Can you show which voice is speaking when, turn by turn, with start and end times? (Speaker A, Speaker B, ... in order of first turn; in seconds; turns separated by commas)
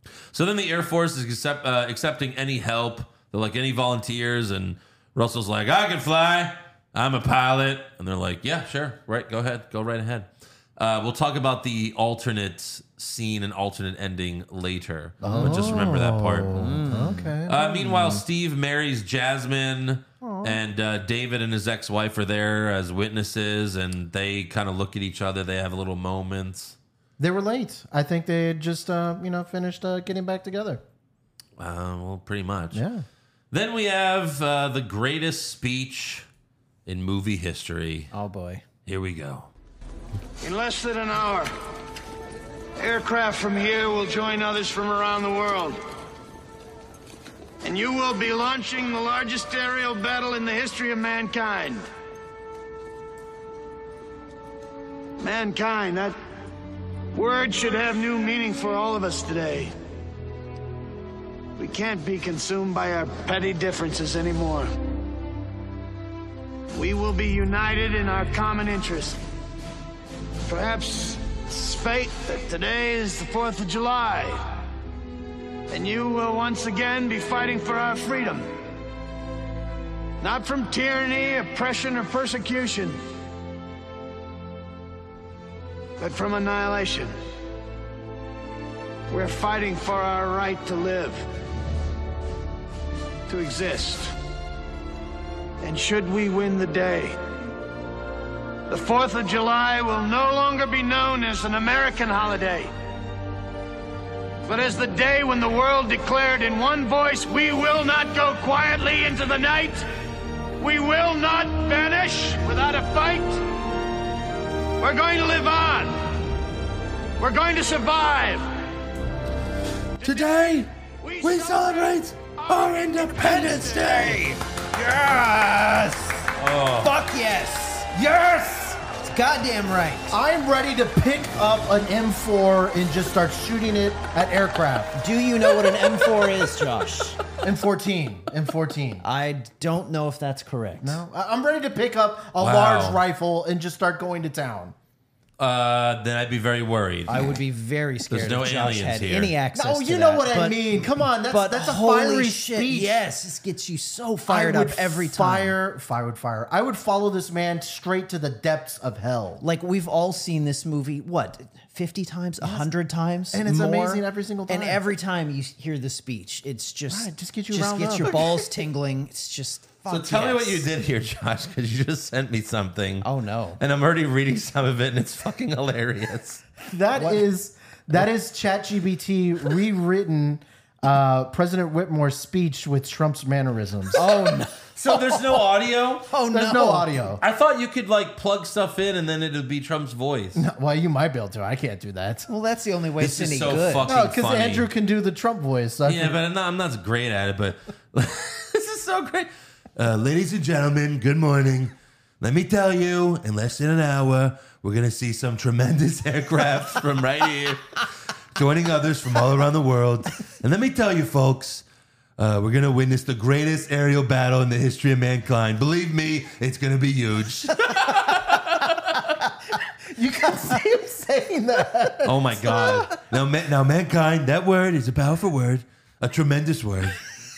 Speaker A: 0.3-26.8, Speaker B: 15.2-18.2, Speaker C: 15.2-15.5, Speaker C: 16.5-17.3, Speaker B: 20.2-20.6, Speaker B: 27.2-30.8, Speaker A: 31.6-32.9, Speaker B: 32.7-33.0, Speaker A: 33.5-36.2, Speaker A: 36.9-38.1, Speaker C: 38.1-38.6, Speaker A: 38.9-39.5, Speaker D: 40.4-41.5, Speaker D: 42.8-45.8, Speaker D: 47.6-51.9, Speaker D: 55.2-56.2, Speaker D: 57.1-59.7, Speaker D: 61.6-64.7, Speaker D: 66.8-69.2, Speaker D: 70.5-74.5, Speaker D: 75.7-78.5, Speaker D: 80.2-83.0, Speaker D: 86.0-87.2, Speaker D: 89.1-91.3, Speaker D: 93.3-94.1, Speaker D: 95.6-97.2, Speaker D: 98.7-102.7, Speaker D: 104.5-109.8, Speaker D: 110.6-113.5, Speaker D: 114.8-116.1, Speaker D: 117.2-118.5, Speaker D: 120.0-124.2, Speaker A: 120.0-120.7, Speaker A: 121.2-124.2, Speaker C: 123.1-128.0, Speaker A: 126.4-127.0, Speaker A: 128.1-128.7, Speaker C: 128.8-130.2, Speaker B: 130.1-135.0, Speaker C: 135.0-137.2, Speaker B: 137.4-139.1, Speaker C: 139.0-141.0, Speaker B: 140.8-144.8, Speaker A: 142.4-143.0, Speaker A: 145.4-147.3, Speaker C: 147.1-155.6, Speaker A: 148.1-149.3, Speaker B: 149.5-153.0, Speaker B: 154.3-159.4, Speaker C: 159.4-170.7, Speaker B: 162.4-162.7, Speaker B: 163.3-164.8, Speaker B: 166.9-168.5, Speaker A: 169.9-176.4, Speaker C: 173.0-173.6, Speaker B: 176.7-184.0, Speaker C: 184.0-185.4, Speaker A: 184.7-186.1, Speaker C: 186.1-187.0, Speaker B: 186.3-187.2, Speaker A: 187.2-190.4, Speaker B: 190.3-192.3, Speaker C: 192.3-193.9, Speaker A: 193.0-194.7, Speaker B: 193.8-196.2, Speaker A: 195.8-211.7, Speaker A: 212.2-219.0, Speaker B: 219.5-223.0, Speaker A: 222.0-227.0